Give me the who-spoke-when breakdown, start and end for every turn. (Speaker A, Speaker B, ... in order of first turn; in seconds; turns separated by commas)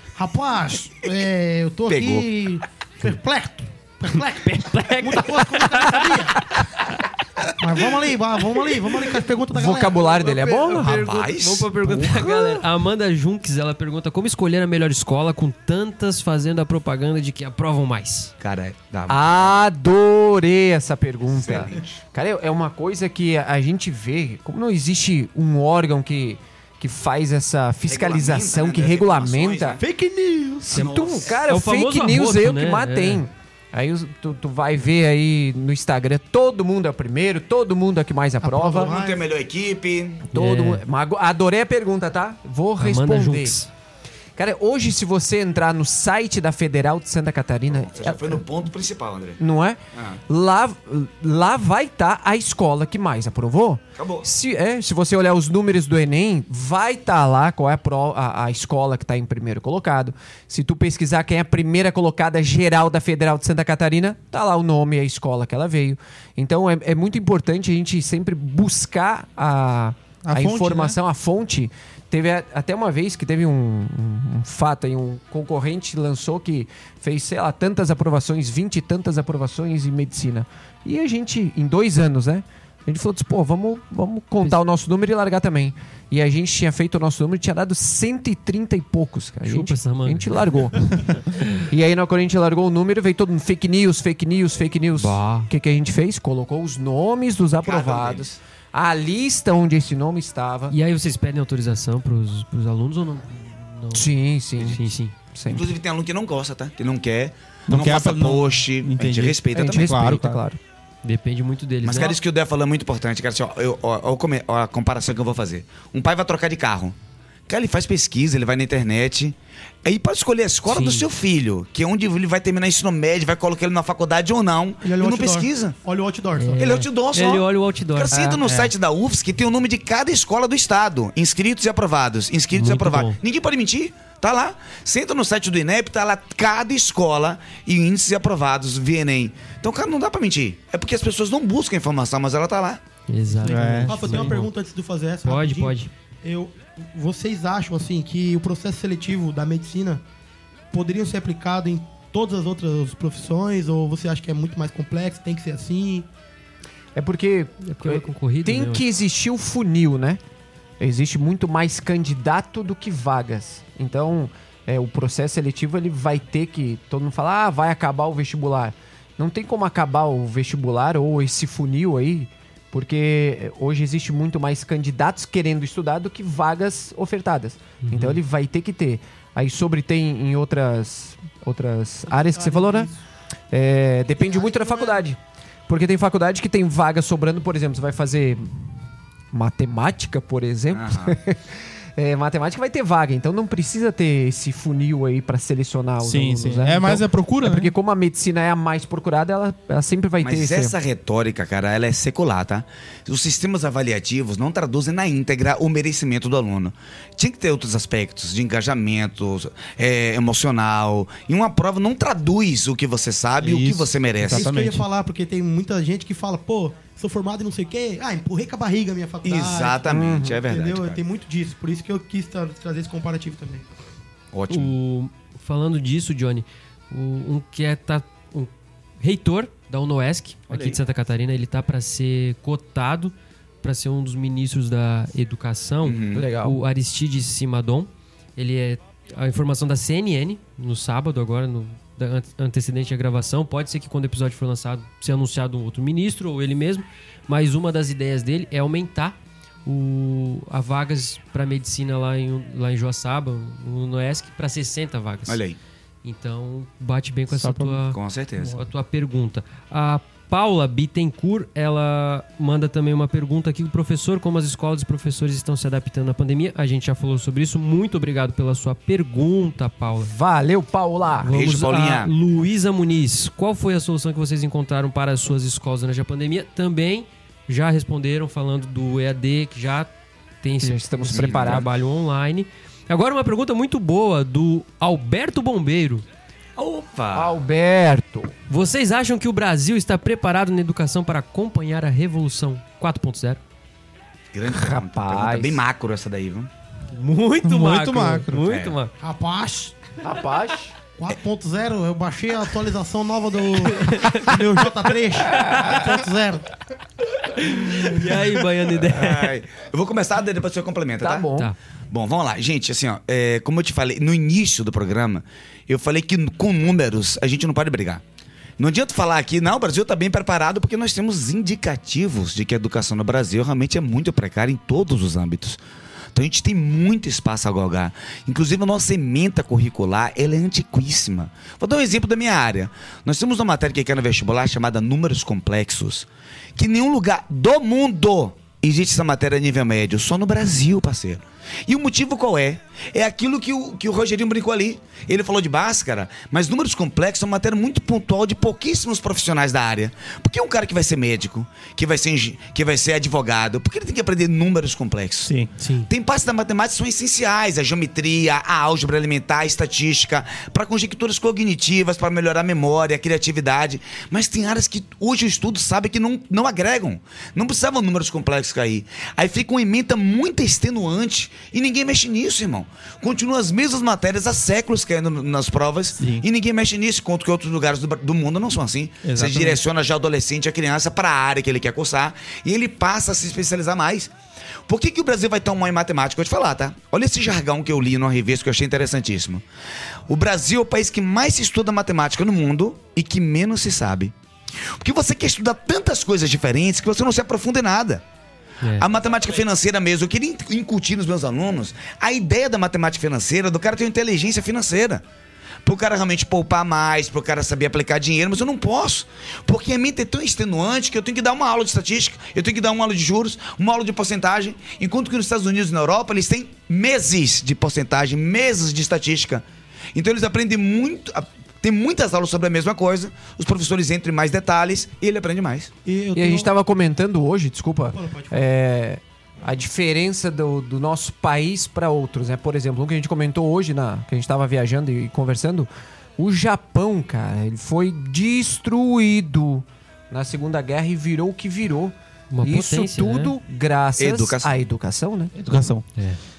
Speaker A: 0.2-6.4, Speaker B: 1.9-2.4, Speaker C: 4.1-6.3, Speaker A: 7.6-10.3, Speaker D: 9.5-11.1, Speaker C: 10.2-18.3, Speaker B: 10.7-11.7, Speaker D: 11.8-12.6, Speaker B: 18.4-19.6, Speaker D: 19.1-29.8, Speaker B: 21.5-21.8, Speaker B: 27.9-29.8, Speaker A: 29.8-30.9, Speaker D: 30.6-38.9, Speaker C: 30.7-33.2, Speaker E: 30.8-31.2, Speaker A: 38.4-39.2, Speaker B: 38.8-40.3, Speaker C: 40.3-40.8, Speaker D: 40.3-43.6, Speaker C: 42.8-43.7, Speaker D: 44.4-48.4, Speaker B: 47.7-49.4, Speaker D: 49.4-100.8, Speaker B: 50.0-50.2, Speaker B: 54.0-54.3, Speaker E: 70.2-71.0, Speaker C: 89.4-91.6, Speaker C: 95.0-95.5, Speaker B: 97.6-98.4, Speaker C: 100.7-105.1, Speaker D: 103.9-105.7, Speaker B: 105.5-110.0, Speaker E: 107.7-110.4, Speaker D: 109.5-110.6, Speaker C: 111.0-112.2, Speaker B: 111.8-117.0, Speaker B: 117.5-125.8, Speaker C: 120.7-121.1, Speaker A: 124.8-126.8, Speaker C: 126.4-128.4, Speaker B: 126.6-142.8, Speaker E: 128.4-128.7, Speaker C: 132.5-133.2, Speaker C: 143.1-144.5, Speaker E: 143.4-144.4, Speaker A: 143.6-150.0, Speaker C: 145.2-145.9, Speaker A: 150.7-156.1, Speaker D: 156.9-160.2, Speaker C: 157.7-158.8, Speaker D: 160.8-182.9, Speaker C: 177.8-178.2, Speaker A: 182.1-182.9, Speaker D: 183.5-188.5, Speaker A: 184.2-185.0, Speaker D: 189.3-200.8, Speaker B: 190.7-191.2, Speaker E: 196.0-197.7, Speaker B: 200.2-214.5, Speaker E: 213.4-214.8, Speaker A: 214.3-219.9, Speaker B: 219.2-221.0, Speaker D: 219.9-220.4, Speaker A: 220.4-223.7, Speaker B: 224.3-224.8, Speaker C: 224.5-255.4, Speaker B: 230.5-230.8, Speaker B: 235.8-236.3, Speaker D: 236.1-236.6, Speaker B: 255.3-255.6, Speaker C: 256.0-270.1, Speaker E: 257.3-257.8, Speaker B: 257.9-258.6, Speaker D: 270.0-271.3, Speaker C: 271.2-279.9, Speaker B: 271.2-272.1, Speaker C: 280.4-286.1, Speaker D: 280.6-281.7, Speaker B: 281.1-281.6, Speaker B: 286.6-287.3, Speaker D: 287.1-288.3, Speaker C: 288.5-293.4, Speaker B: 294.3-296.5, Speaker D: 294.5-295.6, Speaker C: 296.9-298.9, Speaker E: 297.4-298.4, Speaker B: 298.4-298.8, Speaker A: 299.0-299.8, Speaker D: 300.0-300.8, Speaker A: 300.9-306.5, Speaker C: 303.6-304.4, Speaker D: 305.4-305.7, Speaker C: 307.4-309.3, Speaker B: 308.7-311.3, Speaker D: 311.0-311.5, Speaker B: 311.9-318.0, Speaker B: 318.6-325.6, Speaker B: 326.1-384.1, Speaker C: 355.6-355.9, Speaker E: 376.0-376.2, Speaker E: 379.0-379.6, Speaker B: 384.7-389.4, Speaker B: 390.1-398.0, Speaker C: 398.6-398.9, Speaker B: 398.8-405.0, Speaker B: 405.6-419.4, Speaker B: 419.9-425.7, Speaker A: 425.9-426.5, Speaker D: 426.1-445.3, Speaker A: 427.9-428.4, Speaker C: 442.3-443.3, Speaker B: 444.0-444.6, Speaker E: 445.4-445.9